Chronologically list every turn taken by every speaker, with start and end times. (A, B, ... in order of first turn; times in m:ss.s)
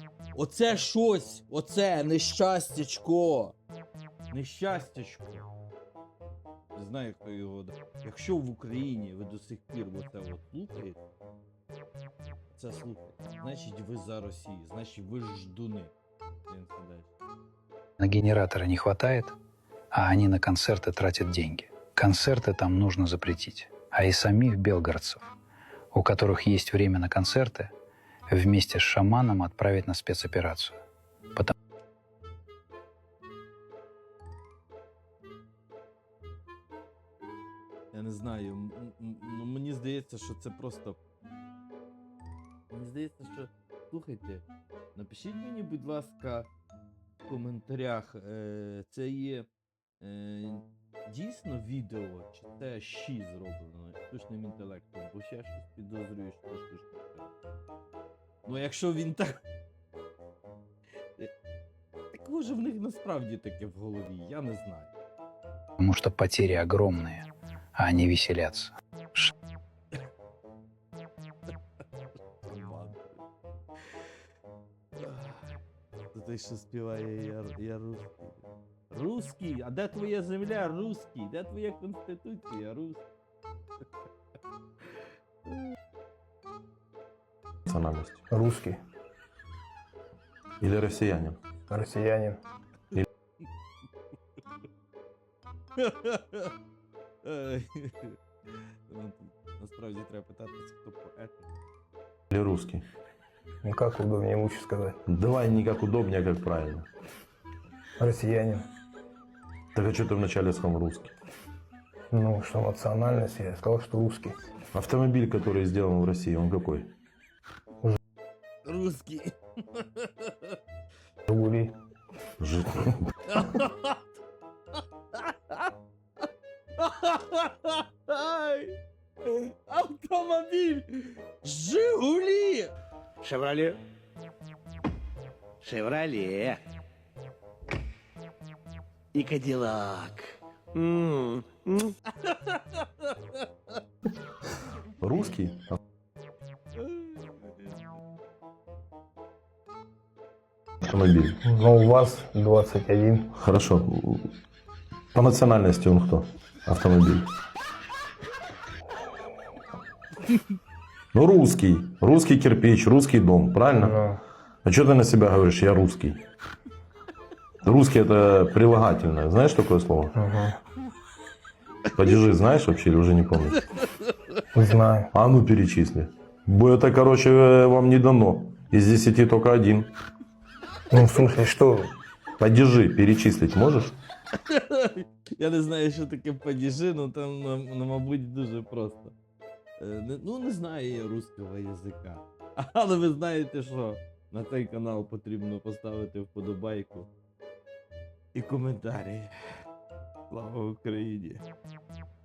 0:00.3-0:03.6 A
0:04.3-0:05.5 A
0:06.8-0:11.0 A
0:12.5-0:15.9 A
0:16.5-0:17.1 A
0:18.0-0:19.4 B
0:19.9-0:25.3 B
0:25.9-0:27.7 B
0:28.3-0:30.8 B
0:37.9-0:41.0 A
0:42.7-0:46.5 A
0:47.3-0:49.5 A
0:50.0-0:57.3 A
0:58.4-0:59.4 A
1:02.1-1:04.9 A
1:05.8-1:09.3 B
1:12.4-1:13.2 A
1:15.0-1:15.6 A
1:16.1-1:23.1 A
1:25.5-1:25.8 A
1:27.7-1:28.2 C
1:28.3-1:28.8 D
1:30.6-1:31.4 C
1:31.7-1:32.4 D
1:35.8-1:36.5 A
1:37.2-1:38.2 A
1:38.9-1:41.5 A
1:42.3-1:42.8 C
1:43.6-1:45.0 D
1:45.1-1:46.9 C
1:48.0-1:48.7 D
1:49.8-1:51.1 C
1:52.1-1:54.4 D
1:54.7-1:56.9 C
1:58.6-2:00.6 A
2:01.3-2:01.7 D
2:02.4-2:03.0 C
2:03.3-2:04.0 A
2:05.1-2:05.7 A
2:06.8-2:12.7 A
2:13.2-2:13.8 E
2:15.6-2:16.6 E
2:19.1-2:21.9 E
2:22.2-2:23.5 A
2:25.0-2:25.8 C
2:26.8-2:27.8 A
2:30.8-2:31.4 C
2:31.4-2:33.3 D
2:33.4-2:34.3 C
2:35.1-2:37.3 C
2:41.1-2:44.0 C
2:43.8-2:44.2 D
2:44.6-2:46.2 C
2:47.6-2:50.1 C
2:50.1-2:50.6 D
2:52.0-2:53.5 C
2:53.8-2:54.4 A
2:54.5-2:55.1 D
2:55.1-2:59.9 C
3:00.9-3:01.9 D
3:02.4-3:03.9 C
3:04.3-3:09.2 A
3:09.8-3:17.1 A
3:18.3-3:19.6 A
3:20.3-3:21.4 A